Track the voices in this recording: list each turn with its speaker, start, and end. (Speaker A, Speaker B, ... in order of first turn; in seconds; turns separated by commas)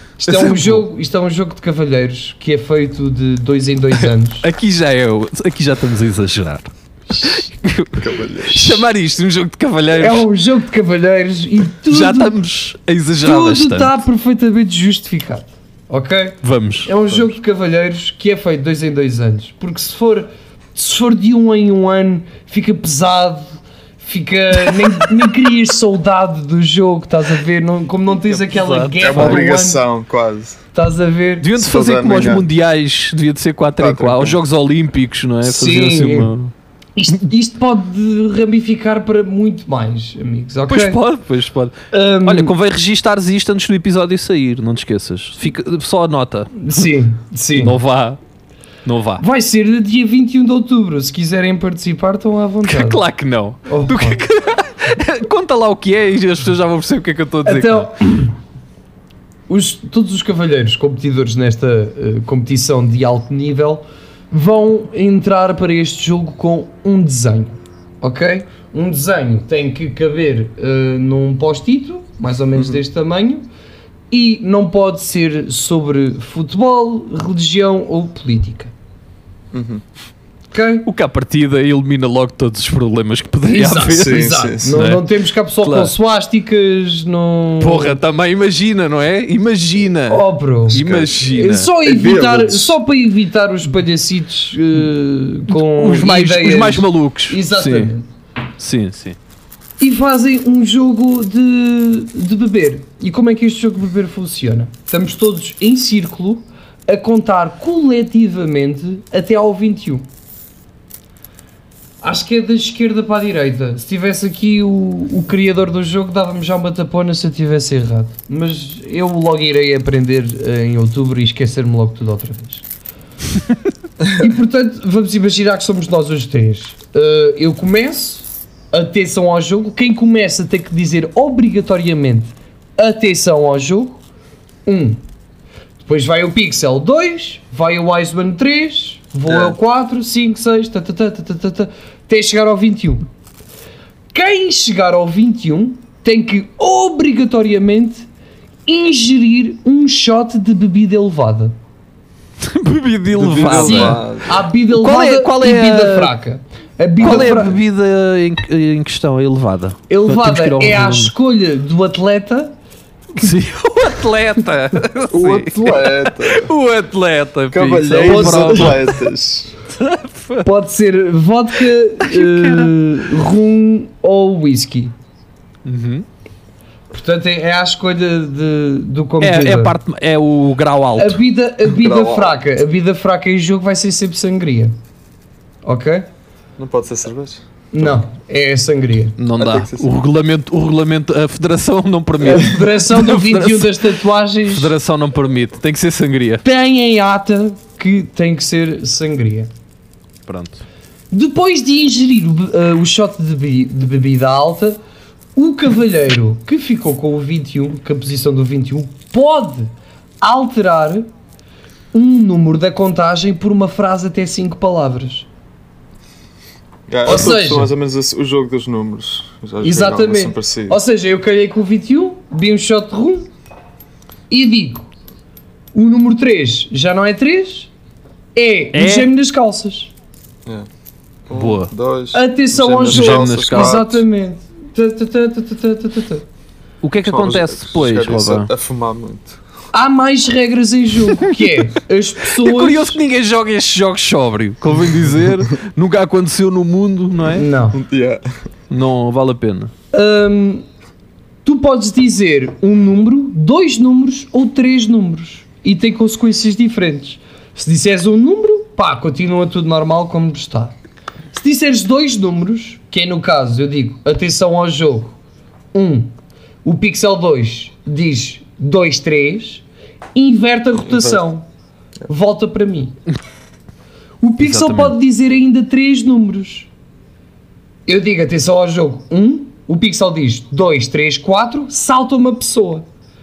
Speaker A: 0.2-4.4, Speaker B: 0.4-0.7, Speaker B: 4.0-10.3, Speaker C: 8.0-8.8, Speaker A: 9.9-12.3, Speaker B: 11.9-14.0, Speaker A: 13.2-29.8, Speaker B: 16.4-16.9, Speaker B: 28.3-29.5, Speaker C: 29.0-30.6, Speaker A: 30.7-31.5, Speaker B: 31.4-36.5, Speaker C: 31.6-32.5, Speaker C: 33.8-34.4, Speaker A: 35.4-36.3, Speaker A: 37.0-41.0, Speaker B: 40.7-46.9, Speaker A: 41.9-42.5, Speaker A: 46.5-47.8, Speaker B: 47.6-48.2, Speaker B: 48.8-49.2, Speaker A: 49.2-53.0, Speaker B: 52.6-57.9, Speaker A: 53.6-54.2, Speaker A: 57.4-58.4, Speaker A: 59.5-73.5, Speaker A: 74.1-78.7, Speaker C: 79.5-79.8, Speaker A: 80.5-80.9, Speaker B: 80.8-85.0, Speaker A: 83.4-88.0, Speaker C: 83.8-84.8, Speaker B: 85.6-85.9, Speaker B: 87.6-91.7, Speaker A: 90.1-98.1, Speaker C: 90.7-91.3, Speaker C: 91.8-92.8, Speaker B: 95.5-97.9, Speaker B: 98.6-99.2, Speaker A: 99.8-110.1, Speaker A: 112.0-122.6, Speaker A: 124.1-134.0, Speaker A: 134.7-135.0, Speaker A: 135.8-143.1, Speaker C: 139.3-139.5, Speaker A: 144.1-148.1, Speaker A: 148.7-151.6, Speaker B: 152.4-154.1, Speaker C: 153.1-154.4, Speaker A: 153.4-157.6, Speaker B: 154.7-156.1, Speaker B: 157.0-161.1, Speaker A: 159.9-162.5, Speaker B: 163.2-169.0, Speaker C: 165.1-166.5, Speaker C: 167.5-169.5, Speaker A: 168.0-168.8, Speaker B: 169.7-170.4, Speaker A: 170.4-174.9, Speaker B: 172.0-172.7, Speaker B: 175.6-176.1, Speaker A: 176.9-179.8, Speaker B: 179.2-181.2, Speaker A: 181.0-184.7, Speaker C: 181.6-182.3, Speaker A: 185.6-186.1, Speaker C: 186.6-188.0, Speaker A: 187.7-189.2, Speaker B: 189.2-193.9, Speaker C: 189.4-189.9, Speaker A: 192.2-194.7, Speaker B: 194.5-196.4, Speaker A: 196.4-199.5, Speaker B: 200.3-200.6, Speaker A: 201.1-204.8, Speaker A: 205.3-209.7, Speaker A: 210.2-211.1, Speaker A: 211.9-215.3, Speaker C: 216.9-220.8, Speaker A: 217.0-217.7, Speaker A: 219.6-223.3, Speaker A: 224.3-224.9, Speaker A: 225.7-227.7, Speaker A: 228.3-229.9, Speaker B: 228.7-229.1, Speaker C: 231.3-234.0, Speaker B: 231.3-231.7, Speaker A: 232.1-236.2, Speaker B: 232.9-233.9, Speaker B: 236.8-238.5, Speaker C: 237.1-239.4, Speaker A: 239.7-243.0, Speaker B: 241.1-241.4, Speaker B: 242.3-247.5, Speaker A: 247.3-247.8, Speaker C: 247.7-248.2, Speaker B: 248.7-249.7, Speaker A: 249.9-250.6, Speaker A: 251.4-260.8, Speaker A: 261.3-265.2, Speaker A: 265.7-266.1, Speaker A: 266.6-271.4, Speaker C: 270.9-271.2, Speaker A: 272.1-272.9, Speaker A: 274.2-276.7, Speaker B: 274.4-274.9, Speaker A: 277.9-282.9